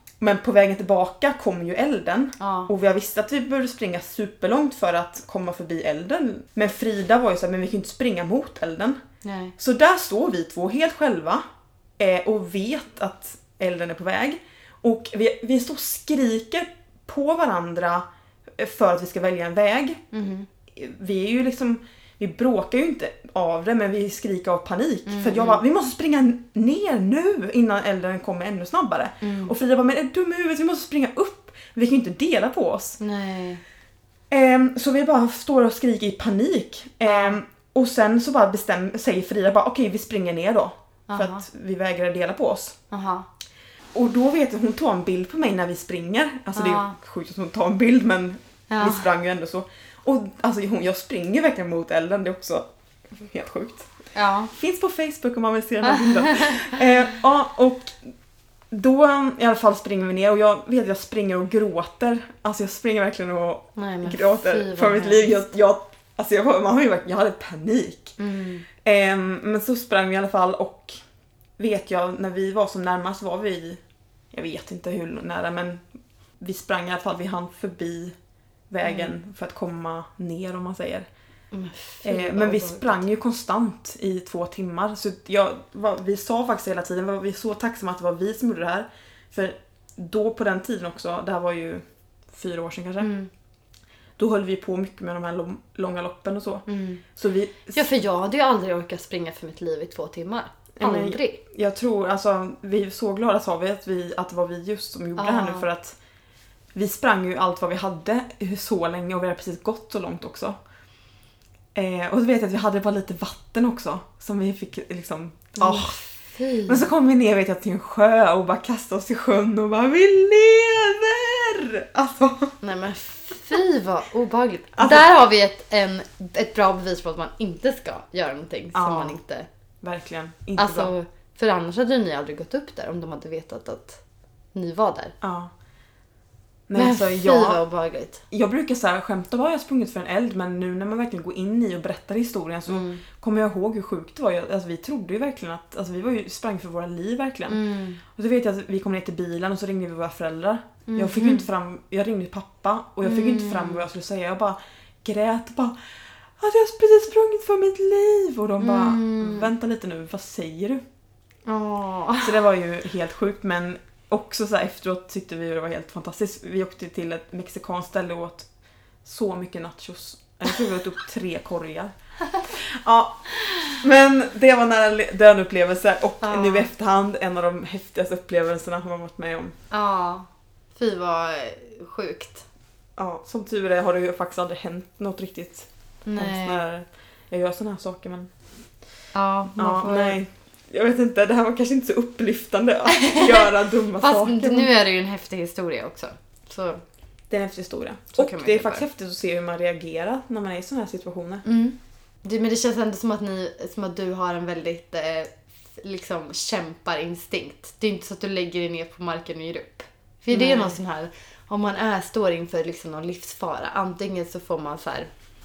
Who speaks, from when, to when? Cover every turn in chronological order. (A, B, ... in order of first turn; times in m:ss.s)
0:00.2-0:09.0 A
0:02.4-0:02.7 B
0:09.2-0:09.6 B
0:09.6-0:11.4 A
0:12.0-0:20.0 A
0:20.1-0:20.5 B
0:20.7-0:33.0 A
0:25.1-0:25.6 B
0:29.2-0:29.5 B
0:33.0-0:33.6 B
0:34.3-0:42.8 A
0:37.1-0:37.4 B
0:41.1-0:41.4 B
0:42.9-0:43.3 B
0:43.9-0:53.9 A
0:46.6-0:47.0 B
0:48.7-0:49.1 B
0:54.2-0:54.5 B
0:54.5-0:58.1 A
0:55.8-0:56.7 B
0:58.7-1:08.2 A
1:03.8-1:05.3 B
1:08.2-1:08.7 B
1:08.8-1:11.0 A
1:11.6-1:13.8 A
1:14.3-1:15.8 A
1:16.4-1:18.2 A
1:18.7-1:21.1 A
1:18.8-1:19.2 B
1:21.5-1:23.0 B
1:22.0-1:33.1 A
1:33.0-1:33.3 B
1:34.2-1:37.8 A
1:36.7-1:37.0 B
1:37.7-1:41.4 B
1:40.8-1:46.0 A
1:45.2-1:45.7 B
1:46.7-1:50.6 A
1:51.8-1:56.0 A
1:55.6-1:56.8 B
1:56.7-2:02.6 A
2:02.6-2:09.5 B
2:04.8-2:05.1 A
2:08.7-2:09.2 A
2:09.8-2:10.9 A
2:10.6-2:14.0 B
2:14.5-2:15.2 B
2:15.2-2:15.5 A
2:16.7-2:17.6 A
2:16.8-2:18.2 B
2:18.3-2:35.8 A
2:22.7-2:23.0 B
2:27.5-2:28.0 B
2:30.9-2:31.5 B
2:33.0-2:33.9 B
2:36.4-2:40.8 A
2:38.6-2:39.5 B
2:41.5-2:42.4 B
2:42.2-2:48.5 A
2:49.0-2:59.6 A
2:56.2-2:56.7 B
2:59.7-3:02.5 B
3:03.0-3:08.3 A
3:06.1-3:06.6 B
3:09.1-3:10.2 B
3:09.6-3:14.7 A
3:12.9-3:13.4 B
3:14.0-3:16.8 B
3:17.3-3:21.4 A
3:18.2-3:18.9 B
3:21.4-3:35.1 B
3:30.3-3:30.8 A